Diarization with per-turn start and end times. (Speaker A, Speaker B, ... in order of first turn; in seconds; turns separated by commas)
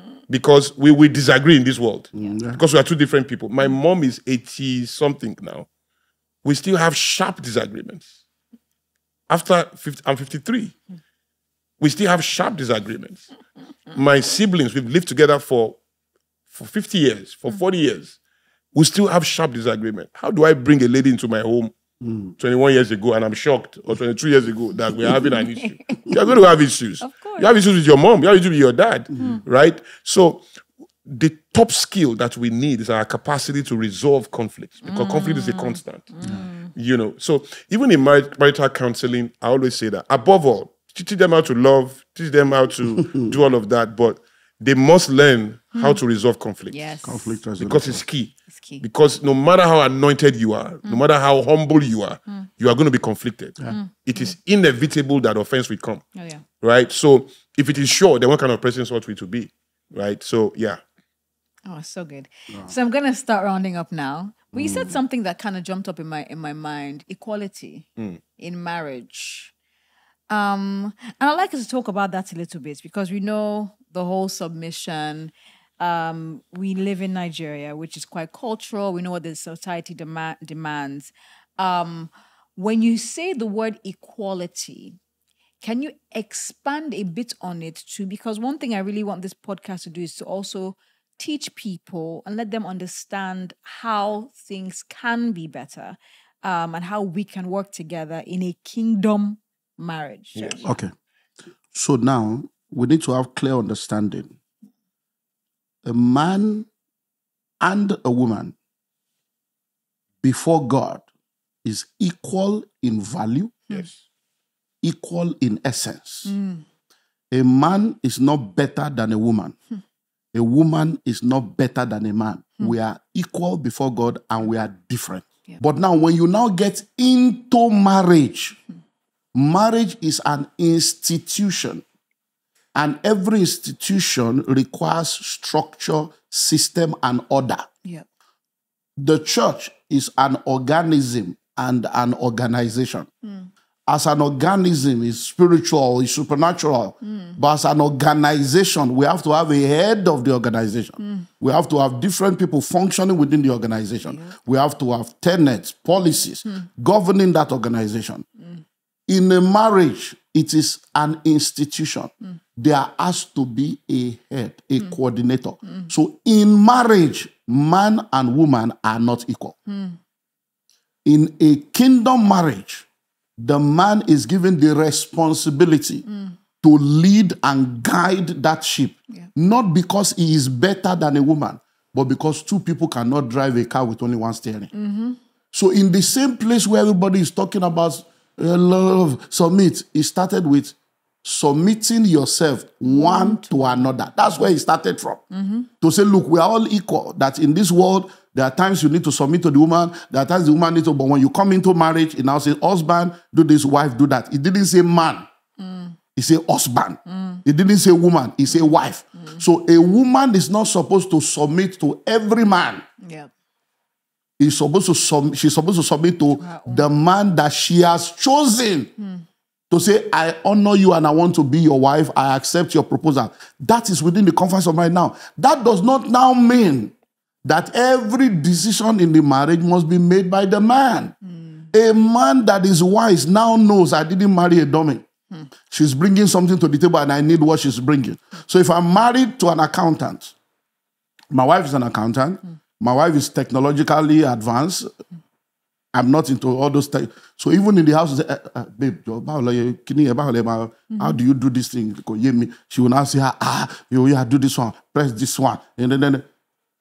Speaker A: 0.3-5.7, Speaker B: 2.1-2.6, Speaker A: 6.4-8.1, Speaker A: 9.3-10.8, Speaker A: 11.8-13.3, Speaker A: 13.9-15.8, Speaker A: 16.5-18.2, Speaker A: 18.7-21.7, Speaker B: 22.0-22.3, Speaker A: 22.4-30.4, Speaker C: 25.2-26.3, Speaker C: 27.0-27.5, Speaker B: 29.1-29.4, Speaker C: 29.1-29.4, Speaker A: 31.1-36.1, Speaker C: 34.8-36.7, Speaker B: 36.2-36.5, Speaker A: 36.8-46.9, Speaker C: 46.7-47.4, Speaker B: 47.0-48.0, Speaker A: 47.6-56.0, Speaker C: 48.5-48.9, Speaker C: 56.1-56.4, Speaker A: 56.6-60.8, Speaker C: 61.7-67.9, Speaker B: 64.5-65.0, Speaker C: 68.4-69.5, Speaker C: 70.3-85.0, Speaker C: 85.6-100.7, Speaker A: 100.3-100.7, Speaker B: 100.6-100.9, Speaker B: 101.7-104.3, Speaker B: 105.8-106.7, Speaker B: 107.6-108.5, Speaker B: 110.2-111.0, Speaker B: 111.6-113.5, Speaker B: 114.8-116.3, Speaker C: 116.3-116.7, Speaker B: 117.3-119.6, Speaker B: 120.3-128.6, Speaker B: 129.3-131.8, Speaker B: 132.8-137.7, Speaker B: 139.0-143.1, Speaker C: 143.2-143.5, Speaker B: 143.9-158.2, Speaker C: 147.0-147.4, Speaker C: 154.1-154.4, Speaker B: 159.1-169.6, Speaker C: 169.7-170.0, Speaker B: 171.1-172.9, Speaker B: 173.4-176.1, Speaker C: 176.1-176.3, Speaker B: 176.6-184.7, Speaker C: 184.7-185.2, Speaker B: 185.5-195.2, Speaker C: 192.8-194.4, Speaker C: 195.3-195.7, Speaker B: 195.8-205.3, Speaker C: 205.6-206.0, Speaker B: 206.2-212.8, Speaker C: 207.1-207.4, Speaker C: 208.6-209.4, Speaker C: 213.0-213.3, Speaker B: 214.4-218.9, Speaker C: 216.4-216.9, Speaker C: 219.0-219.2, Speaker B: 219.7-226.9, Speaker B: 227.4-231.1, Speaker C: 231.4-231.7, Speaker B: 231.7-235.1, Speaker B: 235.7-240.3, Speaker B: 241.3-244.9, Speaker B: 245.9-256.2